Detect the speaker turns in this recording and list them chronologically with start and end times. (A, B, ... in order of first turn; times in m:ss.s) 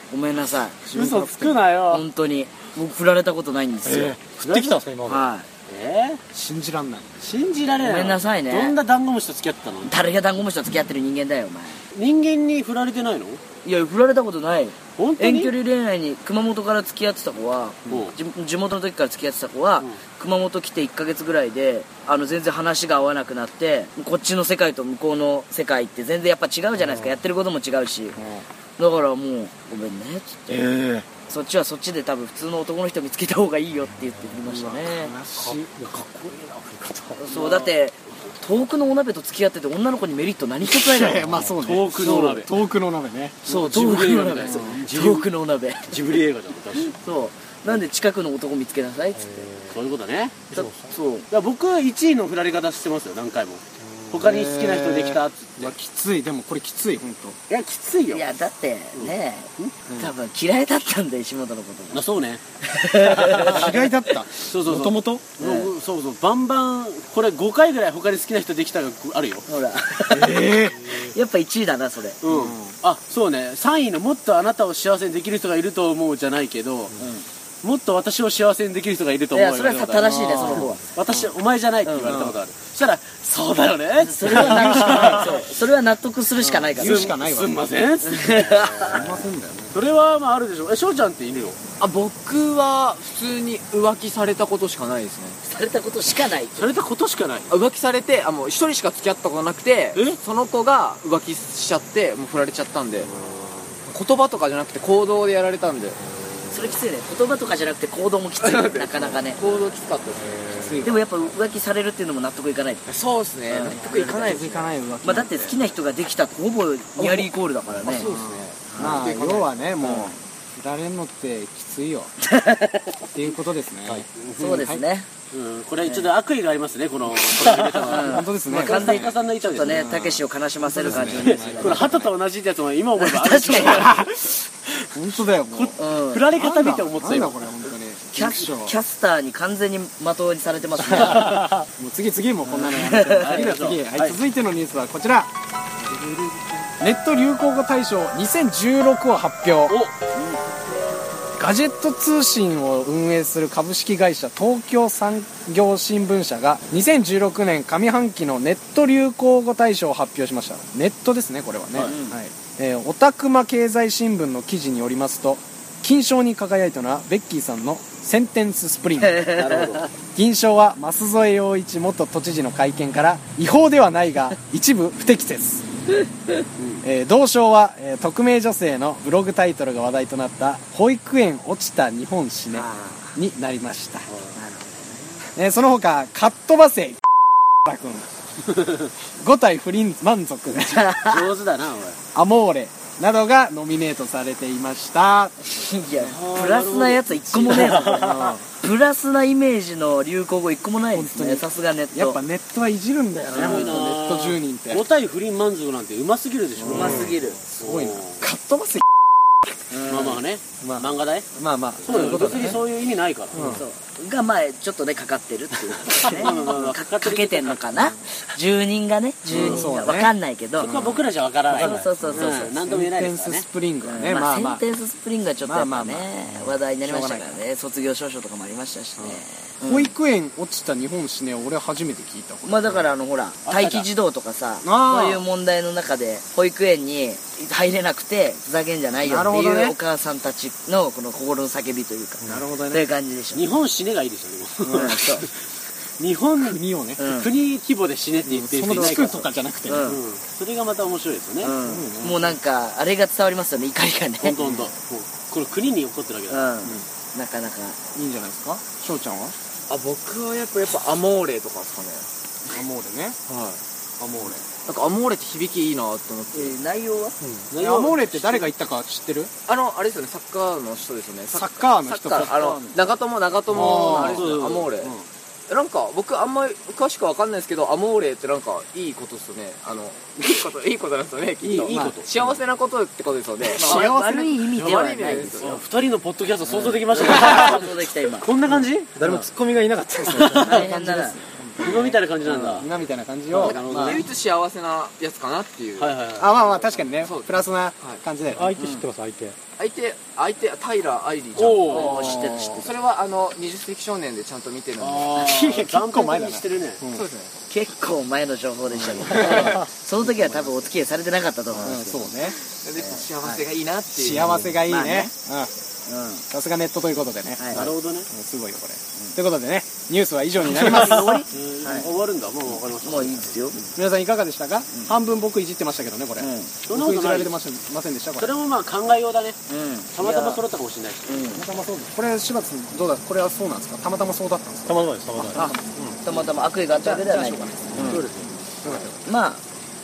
0:00.1-0:00.8 A
0:00.8-0:01.6 B
0:00.9-0:02.0 C
0:01.9-0:04.2 A
0:03.8-0:05.2 D
0:04.4-0:04.8 C
0:04.4-0:04.8 B
0:05.0-0:05.4 A
0:05.7-0:06.2 C
0:06.3-0:07.1 B
0:07.2-0:09.9 C
0:07.8-0:08.8 A
0:09.8-0:11.8 A
0:11.9-0:13.4 C
0:13.6-0:28.2 A
0:15.0-0:15.5 C
0:17.9-0:18.1 C
0:26.8-0:27.2 D
0:28.2-0:28.4 B
0:28.8-0:35.1 A
0:30.5-0:31.0 C
0:33.9-0:34.4 D
0:34.5-0:36.1 B
0:35.3-0:37.2 D
0:37.2-0:41.4 A
0:37.3-0:37.7 C
0:40.6-0:43.4 B
0:41.2-0:41.6 D
0:41.6-0:42.5 C
0:43.4-0:45.3 C
0:43.4-0:45.9 A
0:45.9-0:47.0 C
0:46.8-0:49.5 A
0:49.2-0:49.7 D
0:49.7-0:50.5 C
0:50.5-0:50.9 D
0:50.5-0:51.3 A
0:51.3-0:55.7 C
0:54.1-0:57.4 B
0:57.5-0:58.3 C
0:58.1-1:02.0 A
0:59.0-0:59.7 C
0:59.9-1:00.1 B
1:01.9-1:02.4 C
1:02.6-1:04.1 A
1:03.1-1:03.7 C
1:03.4-1:05.3 B
1:04.4-1:09.4 C
1:05.4-1:05.7 A
1:09.5-1:12.2 A
1:10.1-1:11.0 B
1:12.2-1:17.0 C
1:12.3-1:12.8 B
1:17.0-1:17.2 A
1:17.6-1:25.4 C
1:19.3-1:20.8 A
1:20.1-1:20.7 B
1:21.9-1:22.1 A
1:22.0-1:22.4 B
1:24.0-1:27.1 A
1:24.3-1:25.3 B
1:26.4-1:27.6 B
1:26.8-1:29.2 C
1:28.0-1:29.0 A
1:28.9-1:29.7 B
1:29.7-1:31.6 C
1:31.8-1:35.4 E
1:35.5-1:36.7 A
1:36.6-1:37.5 C
1:37.5-1:43.1 E
1:43.9-1:46.0 E
1:46.5-1:49.4 A
1:48.4-1:50.8 E
1:50.5-1:51.2 B
1:50.8-1:52.9 A
1:52.9-1:54.7 E
1:53.5-1:54.1 A
1:53.7-1:55.6 B
1:55.0-1:58.1 A
1:57.8-1:59.6 E
1:58.1-2:02.1 B
1:58.7-1:59.0 A
1:59.8-2:00.1 A
2:02.2-2:02.9 A
2:03.1-2:04.8 B
2:04.1-2:04.7 C
2:04.4-2:05.1 A
2:05.3-2:09.9 C
2:07.4-2:12.1 B
2:07.8-2:12.0 A
2:10.8-2:14.1 C
2:11.2-2:11.7 D
2:13.0-2:13.9 A
2:13.6-2:14.4 B
2:14.9-2:15.8 B
2:15.5-2:17.5 C
2:15.8-2:16.2 A
2:16.3-2:18.8 B
2:18.1-2:21.5 A
2:20.8-2:25.3 B
2:22.4-2:23.4 A
2:23.2-2:24.2 C
2:26.8-2:29.8 B
2:31.4-2:49.6 B
2:41.8-2:42.2 A
2:49.0-2:49.8 A
2:49.4-2:49.9 E
2:50.1-2:55.6 B
2:56.0-2:56.4 A
2:56.6-2:56.8 C
2:56.8-3:04.1 B
3:02.5-3:03.1 A
3:04.4-3:05.2 A
3:05.4-3:07.0 B
3:07.6-3:08.1 B
3:09.2-3:10.9 B
3:10.7-3:11.2 A
3:11.0-3:12.0 C
3:12.1-3:15.3 B
3:15.5-3:22.2 A
3:16.0-3:18.3 C
3:17.8-3:18.4 B
3:20.9-3:24.8 B
3:23.3-3:28.2 C
3:26.6-3:28.9 B
3:26.7-3:27.4 A
3:29.7-3:30.2 A
3:29.9-3:31.3 C
3:30.6-3:32.6 B
3:31.8-3:33.4 C
3:33.3-3:33.6 B
3:33.4-3:40.7 A
3:35.9-3:37.8 C
3:39.3-3:41.0 B
3:39.3-3:39.6 C
3:40.6-3:43.4 C
3:41.5-3:42.5 A
3:41.5-3:44.6 B
3:43.8-3:49.9 A
3:45.4-3:46.1 B
3:46.8-3:47.4 B
3:49.0-3:52.7 B
3:52.4-4:03.5 A
3:53.4-3:53.9 C
3:54.6-3:55.2 B
3:59.0-3:59.8 B
4:02.2-4:02.8 B
4:03.3-4:05.4 C
4:04.6-4:05.0 B
4:04.7-4:05.3 A
4:06.0-4:09.3 C
4:06.4-4:07.0 B
4:07.0-4:07.3 A
4:08.3-4:09.9 B
4:09.7-4:10.0 A
4:09.8-4:11.5 C
4:11.4-4:14.3 A
4:11.6-4:12.4 B
4:14.2-4:16.5 C
4:14.4-4:14.7 B
4:16.3-4:17.8 A
4:17.9-4:19.4 B
4:19.7-4:22.1 E
4:22.5-4:23.2 B
4:23.3-4:23.6 E
4:24.0-4:24.4 C
4:24.6-4:26.5 E
4:26.3-4:27.2 A
4:27.2-4:27.5 D
4:27.5-4:28.5 C
4:27.6-4:29.3 B
4:29.5-4:34.9 E
4:31.3-4:32.4 B
4:32.0-4:32.8 A
4:33.5-4:34.9 C
4:33.5-4:34.2 B
4:35.5-4:43.9 E
4:41.4-4:42.0 B
4:41.4-4:42.2 C
4:43.5-4:44.4 B
4:43.6-4:45.5 A
4:44.5-4:45.6 E
4:45.0-4:48.9 C
4:46.5-4:48.3 A
4:49.0-4:50.5 D
4:49.0-4:49.3 B
4:50.1-4:50.7 C
4:50.1-4:54.0 B
4:50.4-4:51.2 A
4:51.6-4:52.7 C
4:53.3-4:54.1 C
4:53.4-4:56.0 E
4:55.8-4:56.4 C
4:56.2-4:58.6 B
4:57.0-4:58.0 E
4:58.4-4:59.4 D
4:58.6-4:58.8 A
4:59.6-5:05.2 E
5:01.4-5:02.2 C
5:01.7-5:02.7 A
5:01.8-5:02.6 B
5:04.8-5:06.8 C
5:05.1-5:07.1 B
5:06.9-5:07.3 E
5:07.5-5:12.1 A
5:08.8-5:09.6 B
5:09.1-5:09.7 E
5:11.6-5:12.4 B
5:12.6-5:14.4 E
5:12.8-5:13.4 A
5:14.0-5:15.5 B
5:14.6-5:15.1 A
5:15.9-5:16.2 A
5:16.3-5:21.9 B
5:17.4-5:17.7 A
5:17.5-5:18.1 C
5:20.4-5:21.3 A
5:20.6-5:23.7 C
5:22.8-5:23.6 A
5:23.8-5:28.4 B
5:26.2-5:26.5 A
5:26.7-5:27.4 C
5:28.2-5:29.4 C
5:29.5-5:30.4 A
5:29.9-5:31.3 C
5:31.1-5:31.4 A
5:31.3-5:35.5 B
5:34.6-5:36.0 D
5:35.4-5:38.0 A
5:36.7-5:38.1 B
5:37.8-5:38.2 D
5:38.6-5:39.0 B
5:39.0-5:39.4 A